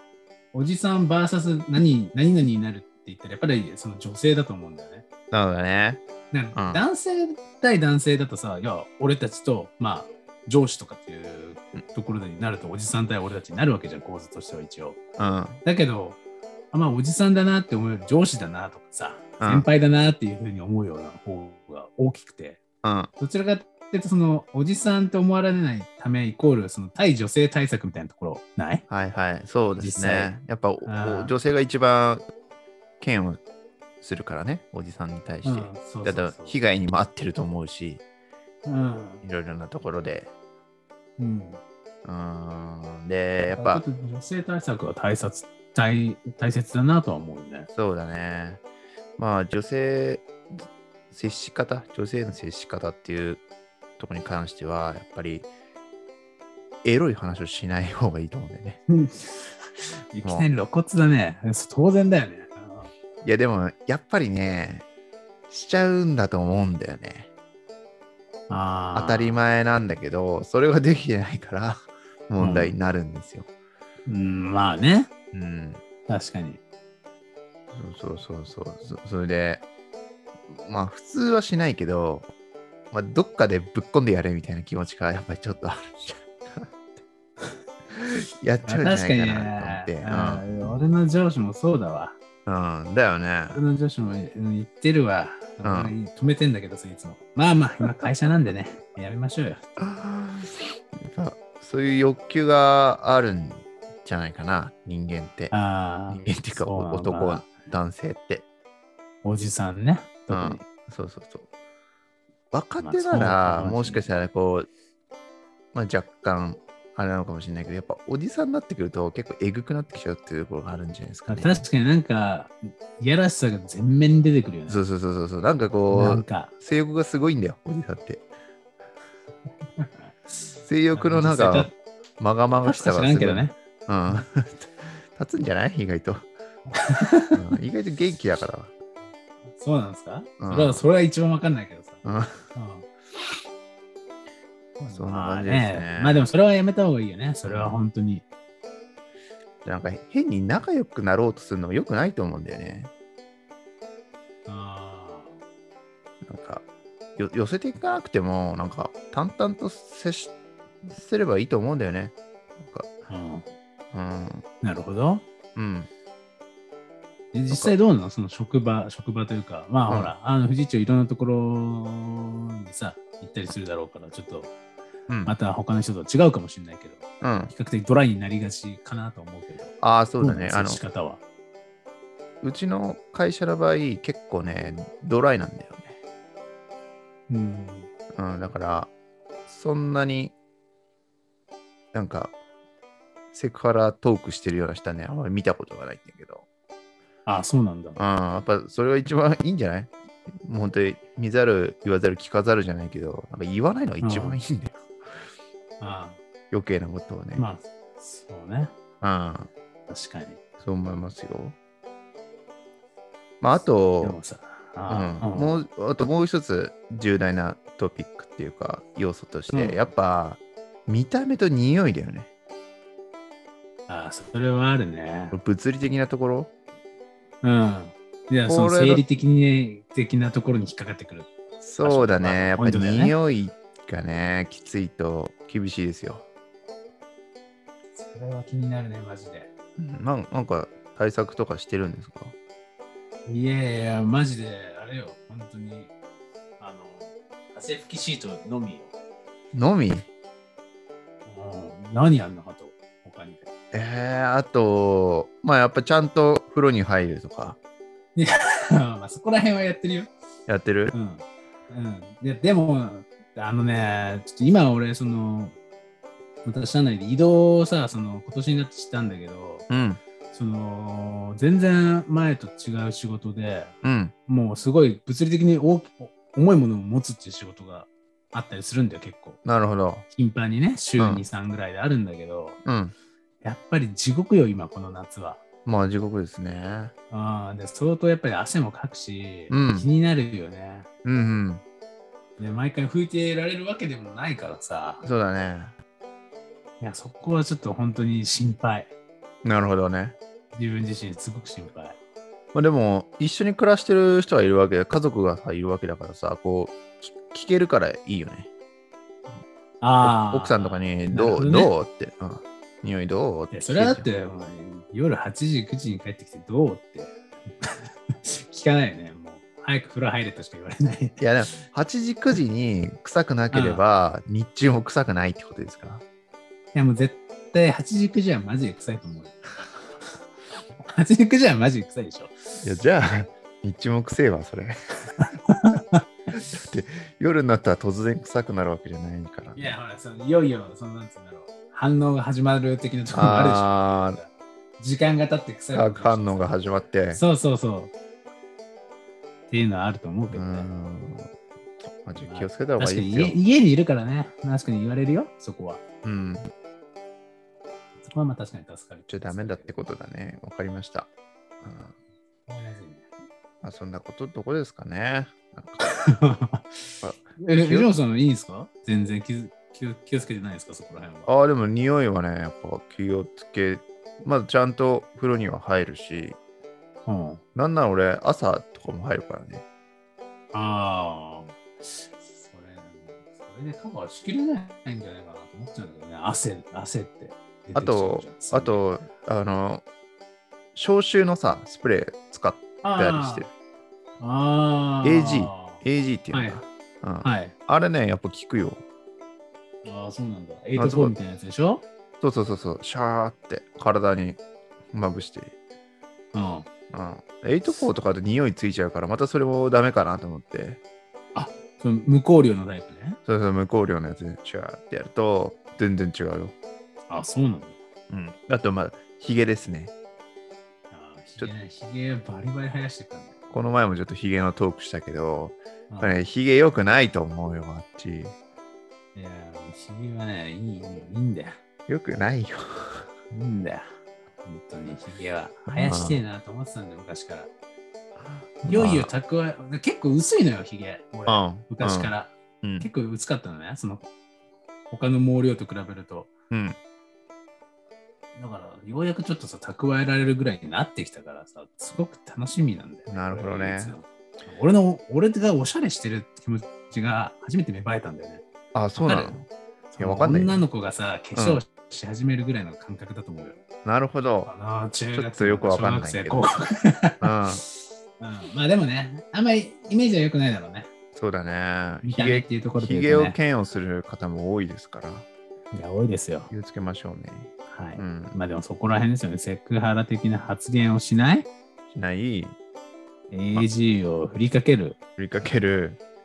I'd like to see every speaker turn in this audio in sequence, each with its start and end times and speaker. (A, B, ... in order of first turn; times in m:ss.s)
0:00.5-0:05.1 A
0:05.3-0:06.0 B
0:06.3-0:15.0 A
0:06.5-0:06.8 B
0:15.2-0:15.6 B
0:15.6-0:16.2 A
0:16.7-0:22.6 A
0:19.4-0:19.7 B
0:22.8-0:23.1 B
0:23.2-0:28.8 A
0:28.9-0:32.2 B
0:29.8-0:31.3 A
0:33.0-0:33.4 B
0:34.0-0:38.0 B
0:35.4-0:36.6 A
0:38.6-0:39.2 A
0:39.2-0:40.3 B
0:41.2-0:41.6 A
0:42.0-0:43.8 B
0:43.5-0:47.7 A
0:47.7-0:48.6 B
0:49.2-0:53.4 B
0:54.0-0:55.5 B
0:56.8-0:58.8 B
0:58.9-1:02.9 A
1:00.2-1:00.5 B
1:03.2-1:04.9 B
1:05.5-1:07.3 B
1:08.5-1:09.4 A
1:09.0-1:13.5 B
1:12.4-1:12.7 A
1:14.1-1:15.1 A
1:15.3-1:15.8 B
1:16.1-1:16.6 A
1:17.7-1:19.6 B
1:20.5-1:22.3 B
1:22.9-1:27.0 B
1:27.9-1:30.5 B
1:28.7-1:32.2 A
1:32.5-1:33.6 B
1:33.5-1:39.6 A
1:35.6-1:36.0 B
1:39.8-1:45.5 B
1:45.5-1:47.5 A
1:46.1-1:48.5 B
1:49.2-1:50.6 A
1:50.3-1:51.5 B
1:52.5-1:54.7 B
1:52.8-1:54.1 A
1:55.7-2:01.6 B
2:01.3-2:04.8 A
2:04.7-2:08.3 B
2:05.9-2:06.5 A
2:09.8-2:11.7 A
2:10.6-2:16.3 B
2:12.7-2:13.6 A
2:16.7-2:17.4 A
2:17.3-2:18.7 B
2:19.5-2:22.0 A
2:20.4-2:20.8 B
2:22.0-2:22.5 B
2:22.5-2:22.9 A
2:24.8-2:26.2 B
2:24.8-2:28.2 A
2:27.5-2:27.8 B
2:29.6-2:32.9 B
2:34.5-2:35.4 A
2:36.2-2:42.9 B
2:43.1-2:43.4 A
2:43.9-2:44.4 B
2:44.6-2:45.2 A
2:45.6-2:45.9 B
2:47.3-2:54.5 A
2:47.5-2:47.8 B
2:55.1-2:55.4 B
2:55.2-3:01.2 A
2:57.2-2:57.5 B
2:59.8-3:00.8 B
3:02.4-3:06.0 B
3:07.3-3:07.9 A
3:08.2-3:08.9 B
3:09.5-3:10.4 B
3:11.9-3:12.4 B
3:13.3-3:16.4 B
3:17.3-3:18.0 A
3:18.0-3:24.9 B
3:24.0-3:24.4 A
3:25.8-3:26.2 A
3:26.5-3:27.5 B
3:27.4-3:28.7 A
3:29.0-3:29.5 B
3:29.9-3:30.4 A
3:30.6-3:31.6 B
3:33.4-3:34.2 B
3:34.0-3:35.6 A
3:34.9-3:42.3 B
3:39.5-3:39.8 A
3:43.9-3:45.4 A
3:45.3-3:46.5 B
3:47.4-3:51.3 A
3:48.4-3:49.0 B
3:51.6-3:56.2 B
3:51.8-3:53.2 A
3:58.0-3:59.5 A
3:59.8-4:02.4 B
4:03.3-4:05.9 A
4:06.6-4:08.9 A
4:09.5-4:10.1 B
4:11.3-4:13.5 A
4:13.7-4:17.6 B
4:18.2-4:20.1 A
4:20.5-4:21.0 B
4:20.9-4:25.6 A
4:26.4-4:29.7 A
4:29.7-4:30.0 B
4:30.3-4:33.7 A
4:33.8-4:34.1 B
4:34.3-4:39.4 A
4:39.4-4:40.0 B
4:40.1-4:42.6 A
4:41.0-4:41.2 B
4:42.6-4:42.9 B
4:43.4-4:45.4 A
4:45.6-4:46.9 B
4:47.1-4:50.9 A
4:49.5-4:49.9 B
4:51.0-4:51.6 B
4:52.4-4:55.0 A
4:55.0-4:55.7 B
4:56.8-4:58.9 A
4:59.4-5:00.2 B
5:00.5-5:02.0 A
5:02.5-5:08.5 B
5:09.8-5:11.7 A
5:10.0-5:14.1 B
5:13.5-5:21.6 A
5:21.2-5:26.0 B
5:23.5-5:23.8 A
5:26.7-5:29.4 A
5:30.8-5:32.6 A
5:32.6-5:34.8 B
5:35.2-5:36.0 A
5:36.5-5:39.8 B
5:39.6-5:46.5 A
5:43.1-5:44.2 B
5:45.7-5:47.2 B
5:47.1-5:47.9 A
5:49.5-5:50.7 A
5:50.3-5:51.3 B
5:51.9-5:53.4 B
5:52.2-5:55.8 A
5:56.0-5:56.5 B
5:58.1-5:59.7 A
5:59.1-6:01.1 B
6:01.6-6:01.9 B
6:02.5-6:03.0 A
6:03.6-6:05.8 B
6:05.8-6:11.3 A
6:07.0-6:07.9 B
6:11.3-6:16.4 B
6:17.1-6:17.4 A
6:17.6-6:19.6 B
6:20.5-6:28.8 A
6:27.8-6:29.8 B
6:30.8-6:33.5 B
6:32.8-6:33.5 A
6:34.2-6:36.6 A
6:35.0-6:38.8 B
6:37.2-6:37.6 A
6:39.8-6:41.8 A
6:40.8-6:41.1 B
6:42.2-6:44.4 B
6:44.9-6:45.5 B
6:46.3-6:46.7 A
6:46.9-6:50.8 B
6:51.4-6:53.2 A
6:53.3-6:56.6 B
6:57.1-6:57.8 A
6:58.1-6:59.9 B
7:00.9-7:03.3 A
7:03.5-7:08.4 B
7:09.2-7:11.6 A
7:11.9-7:13.1 B
7:13.3-7:13.9 A
7:14.4-7:17.5 A
7:15.7-7:16.2 B
7:18.6-7:24.1 A
7:18.6-7:19.1 B
7:21.3-7:22.9 B
7:24.9-7:26.3 A
7:26.5-7:26.8 B
7:28.4-7:38.4 A
7:33.1-7:34.0 B
7:38.7-7:39.5 B
7:39.0-7:39.4 A
7:39.9-7:43.6 A
7:40.0-7:40.6 B
7:41.4-7:41.6 B
7:43.8-7:44.5 B
7:44.5-7:50.9 A
7:45.1-7:46.5 B
7:47.2-7:47.6 B
7:51.1-7:55.3 B
7:52.0-7:53.4 A
7:55.7-7:56.5 A
7:56.5-7:58.4 B
7:57.7-8:01.5 A
8:01.9-8:02.6 B
8:03.3-8:05.0 A
8:05.2-8:06.0 B